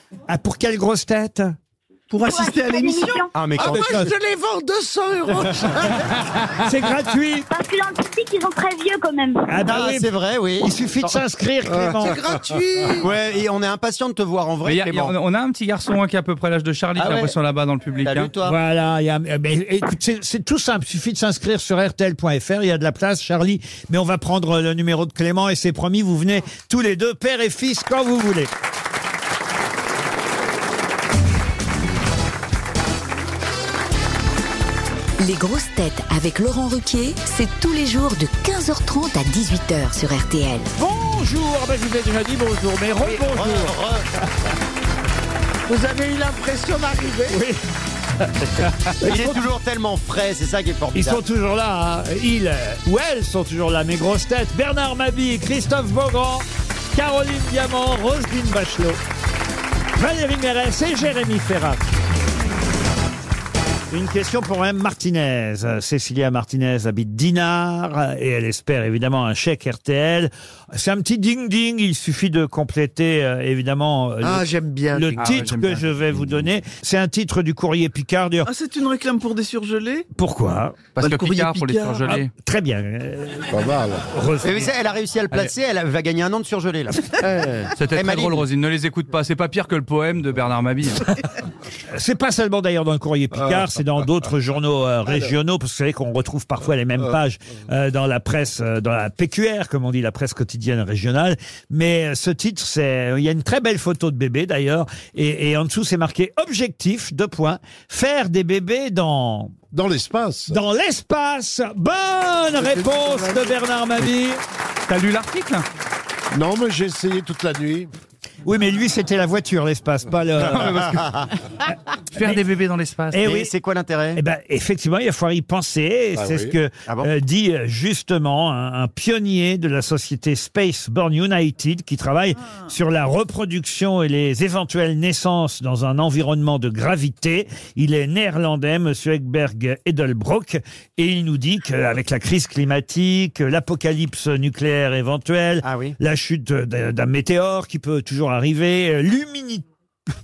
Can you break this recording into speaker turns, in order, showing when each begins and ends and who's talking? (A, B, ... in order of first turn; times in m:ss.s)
0:00.3-0:01.6 A
0:02.1-0:03.3 B
0:02.2-0:03.3 C
0:03.3-0:04.0 D
0:03.6-0:06.1 E
0:03.6-0:04.1 A
0:06.6-0:07.5 A
0:07.5-0:09.6 C
0:09.5-0:12.2 A
0:09.6-0:10.7 D
0:11.8-0:13.1 E
0:11.9-0:12.2 F
0:13.0-0:15.1 D
0:14.6-0:18.3 G
0:17.0-0:17.3 D
0:18.0-0:18.6 D
0:18.4-0:28.5 A
0:35.2-0:40.7 H
0:40.8-0:43.8 A
0:43.0-0:44.0 D
0:45.7-0:47.4 E
0:47.3-0:47.6 A
0:49.0-0:49.5 A
0:49.0-0:51.2 D
0:50.9-0:59.0 A
1:00.0-1:01.9 A
1:03.9-1:18.5 A
1:14.2-1:15.2 E
1:15.2-1:16.2 G
1:18.4-1:20.1 B
1:20.2-1:20.8 A
1:21.0-1:22.3 G
1:21.0-1:22.2 B
1:22.1-1:23.6 A
1:23.5-1:24.0 F
1:24.1-1:24.7 A
1:24.4-1:27.1 D
1:27.2-1:27.7 E
1:27.8-1:31.1 G
1:27.9-1:28.4 D
1:31.9-1:49.6 A
1:49.7-1:50.6 F
1:50.5-1:54.4 A
1:52.6-1:53.5 E
1:54.9-1:55.6 G
1:56.3-1:57.9 F
1:58.5-2:01.0 A
2:00.5-2:01.1 G
2:02.1-2:03.3 G
2:03.1-2:04.2 D
2:03.2-2:03.5 A
2:04.2-2:29.6 A
2:06.2-2:06.5 F
2:25.6-2:26.0 D